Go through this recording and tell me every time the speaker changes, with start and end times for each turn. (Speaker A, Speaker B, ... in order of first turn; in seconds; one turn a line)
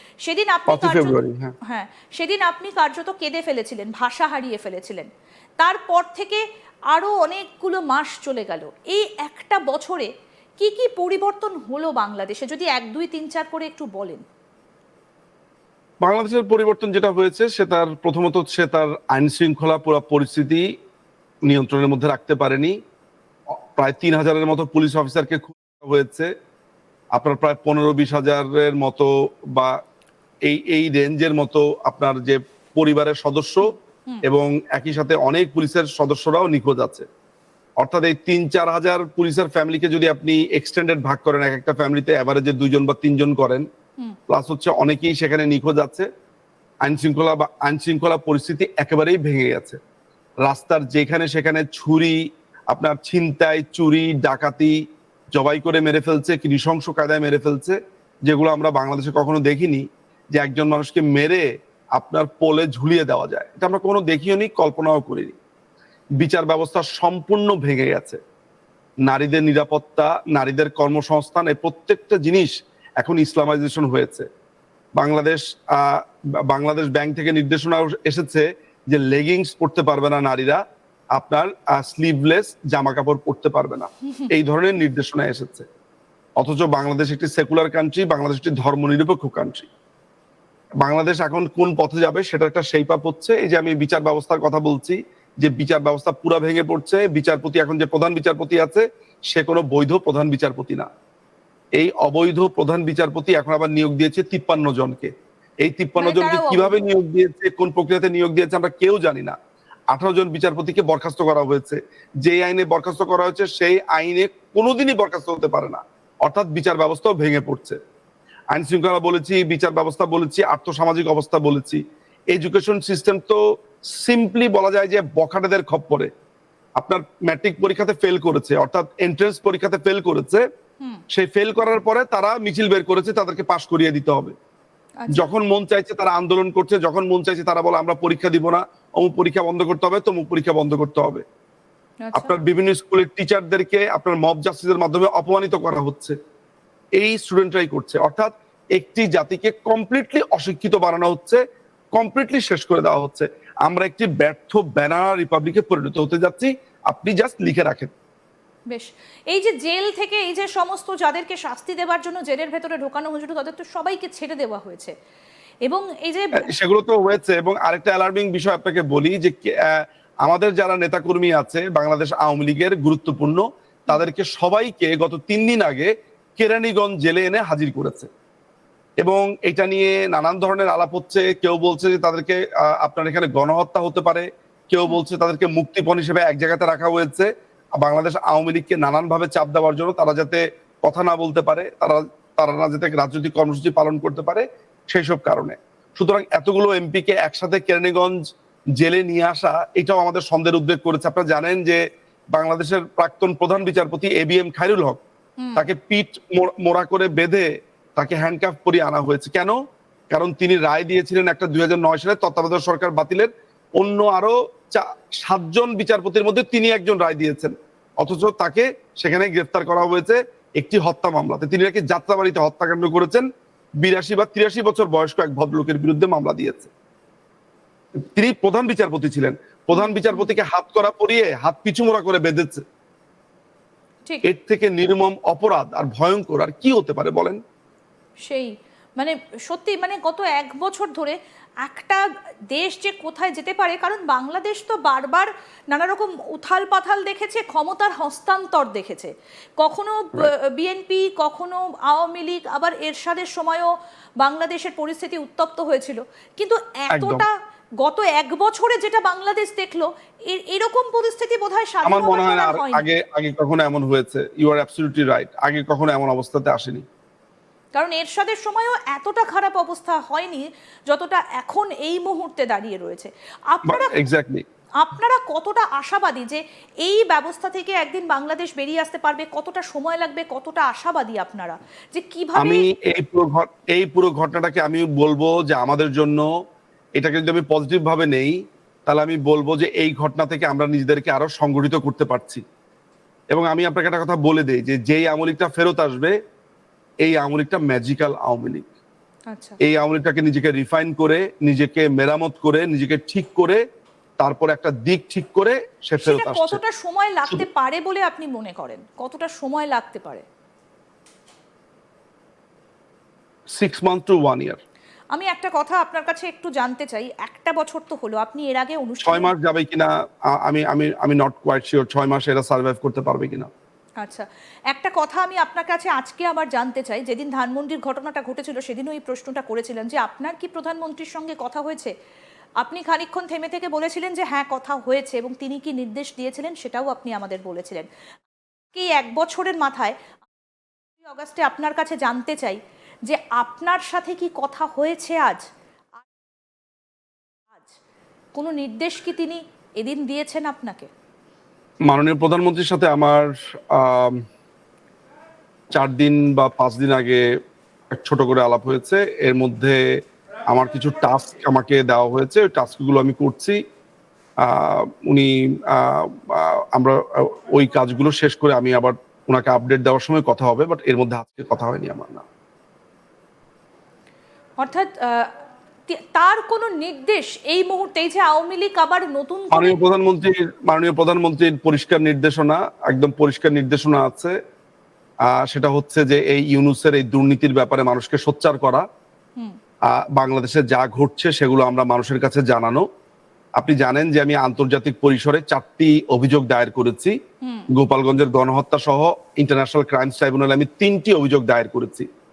Speaker A: 0.2-1.1
Speaker B: 0.7-1.5
Speaker A: 1.7-5.1
Speaker A: 5.6-14.2
Speaker B: 16.0-20.7
Speaker B: 21.5-22.8
Speaker B: 23.8-26.3
Speaker B: 27.1-29.8
Speaker B: 30.5-33.7
Speaker B: 34.2-37.0
Speaker B: 37.8-43.6
Speaker B: 44.3-46.1
Speaker B: 46.8-49.8
Speaker B: 50.5-54.8
Speaker B: 55.3-65.4
Speaker B: 66.2-68.2
Speaker B: 69.1-74.3
Speaker B: 75.0-80.6
Speaker B: 81.2-85.7
Speaker B: 86.4-89.7
Speaker B: 90.8-100.9
Speaker B: 101.8-105.1
Speaker B: 105.6-109.4
Speaker A: 106.0-106.8
Speaker B: 109.9-117.8
Speaker B: 118.5-121.8
Speaker B: 122.3-123.4
Speaker B: 123.9-126.1
Speaker B: 126.8-130.4
Speaker B: 131.1-134.3
Speaker A: 135.0-135.3
Speaker B: 135.1-141.2
Speaker A: 142.0-142.3
Speaker B: 142.1-146.2
Speaker B: 147.0-151.4
Speaker B: 151.9-157.9
Speaker A: 158.7-164.9
Speaker A: 165.7-166.5
Speaker B: 166.4-178.1
Speaker B: 179.0-198.2
Speaker B: 198.8-201.8
Speaker B: 202.3-205.0
Speaker A: 205.4-205.7
Speaker B: 205.6-209.6
Speaker B: 210.1-223.2
Speaker B: 223.8-226.7
Speaker B: 228.2-232.6
Speaker A: 229.7-230.3
Speaker B: 234.2-237.4
Speaker A: 238.2-242.0
Speaker A: 242.5-262.8
Speaker B: 256.9-257.3
Speaker B: 261.9-266.9
Speaker A: 267.8-274.0
Speaker B: 273.7-274.4
Speaker A: 274.8-282.7
Speaker B: 282.4-286.2
Speaker B: 287.0-292.4
Speaker B: 293.3-296.1
Speaker B: 297.0-298.7
Speaker A: 299.3-299.6
Speaker B: 299.6-303.6
Speaker B: 304.2-306.6
Speaker A: 306.0-310.2
Speaker B: 313.5-314.6
Speaker A: 315.1-319.3
Speaker B: 319.0-323.5
Speaker A: 324.0-331.9
Speaker A: 332.6-337.9
Speaker A: 338.7-339.9
Speaker A: 341.0-345.4
Speaker A: 347.5-347.8
Speaker A: 348.4-350.9
Speaker B: 351.9-354.2
Speaker B: 355.7-357.2
Speaker B: 357.9-359.8
Speaker B: 360.5-363.6
Speaker B: 364.4-372.2
Speaker A: 374.6-375.3
Speaker A: 375.9-379.8
Speaker B: 379.5-384.4
Speaker B: 385.3-388.9
Speaker B: 389.9-392.9
Speaker B: 393.6-397.2
Speaker A: 397.4-397.7
Speaker B: 397.7-402.1